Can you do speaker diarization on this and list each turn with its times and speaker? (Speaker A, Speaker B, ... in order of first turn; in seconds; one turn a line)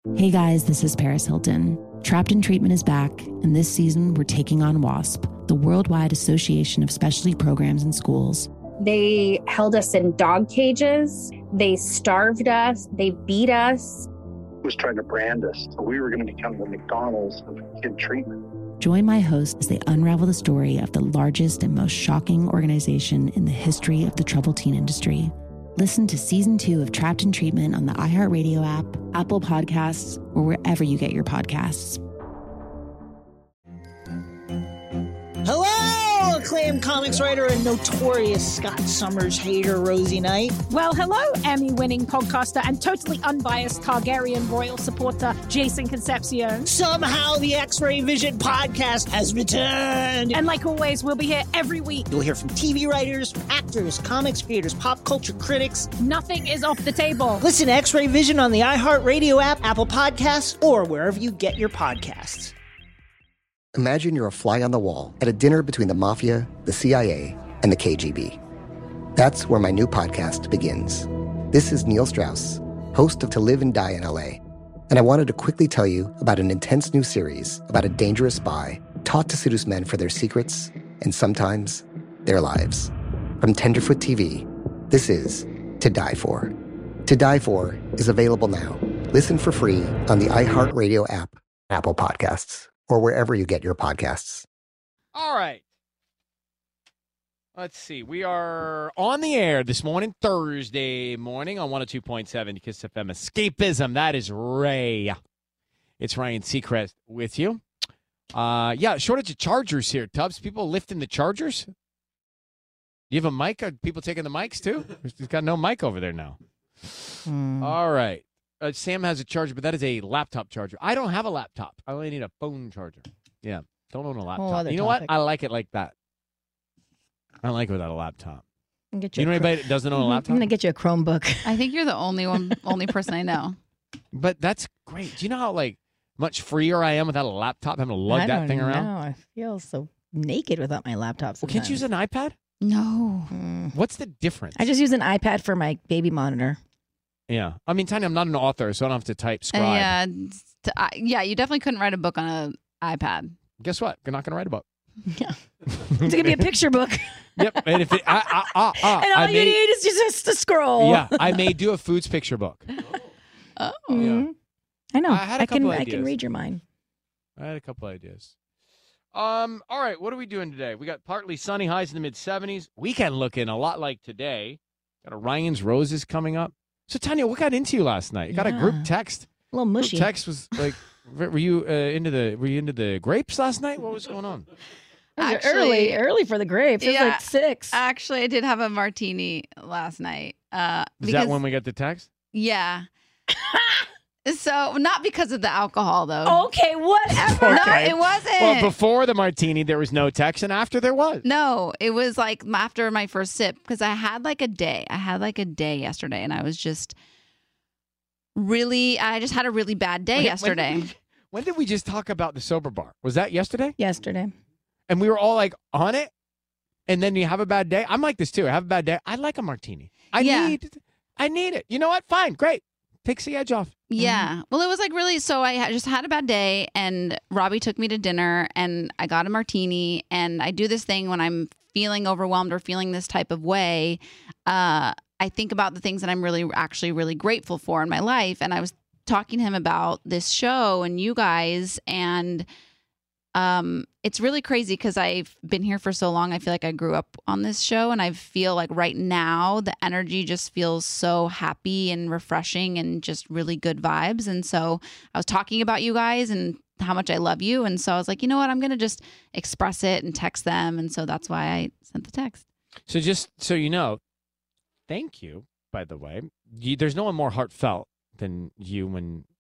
Speaker A: 0.1-8.5
Speaker B: 8.8-14.1
Speaker C: 14.6-18.4
Speaker A: 18.8-32.0
Speaker D: 35.4-40.6
Speaker E: 40.7-46.7
Speaker D: 46.6-50.4
Speaker E: 50.3-52.1
Speaker D: 52.1-55.9
Speaker E: 56.0-57.4
Speaker D: 57.4-62.5
Speaker F: 63.8-65.2
Speaker A: 64.1-68.1
Speaker F: 65.8-68.4
Speaker A: 69.2-71.0
Speaker F: 69.2-74.4
Speaker A: 71.6-72.4
Speaker F: 74.9-86.5
Speaker A: 75.0-75.3
Speaker F: 87.1-94.5
Speaker A: 87.8-88.3
Speaker A: 90.1-90.7
Speaker A: 93.6-94.0
Speaker G: 95.1-95.6
Speaker G: 97.6-105.2
Speaker G: 106.0-107.6
Speaker G: 108.3-111.7
Speaker G: 113.1-125.9
Speaker H: 117.3-117.8
Speaker H: 124.3-125.2
Speaker G: 127.4-128.4
Speaker H: 128.9-131.7
Speaker G: 129.2-130.5
Speaker I: 131.4-133.6
Speaker H: 132.5-132.9
Speaker G: 134.1-138.9
Speaker H: 138.1-141.9
Speaker G: 141.4-142.3
Speaker I: 142.6-143.3
Speaker H: 143.3-143.8
Speaker G: 143.7-144.6
Speaker H: 144.5-146.6
Speaker G: 147.3-150.0
Speaker I: 149.5-153.4
Speaker G: 153.6-154.6
Speaker G: 155.8-156.6
Speaker H: 156.0-161.6
Speaker G: 157.4-159.6
Speaker G: 160.8-162.7
Speaker I: 163.6-164.1
Speaker H: 163.9-164.3
Speaker G: 163.9-164.3
Speaker H: 164.9-166.6
Speaker G: 165.1-166.2
Speaker G: 167.4-168.3
Speaker G: 169.1-184.5
Speaker H: 178.3-178.9
Speaker H: 179.5-180.7
Speaker H: 185.2-187.8
Speaker I: 185.2-186.0
Speaker I: 186.8-191.4
Speaker G: 191.0-192.1
Speaker I: 192.3-192.8
Speaker H: 193.6-193.8
Speaker I: 194.3-196.5
Speaker H: 196.2-197.9
Speaker G: 197.2-201.2
Speaker I: 197.5-198.8
Speaker I: 201.2-207.0
Speaker I: 208.4-210.9
Speaker G: 210.2-213.8
Speaker H: 213.8-214.3
Speaker G: 214.9-216.1
Speaker G: 216.9-223.8
Speaker I: 220.2-220.6
Speaker I: 223.9-242.5
Speaker H: 224.0-224.3
Speaker I: 243.3-262.4
Speaker G: 262.9-264.0
Speaker G: 264.9-269.3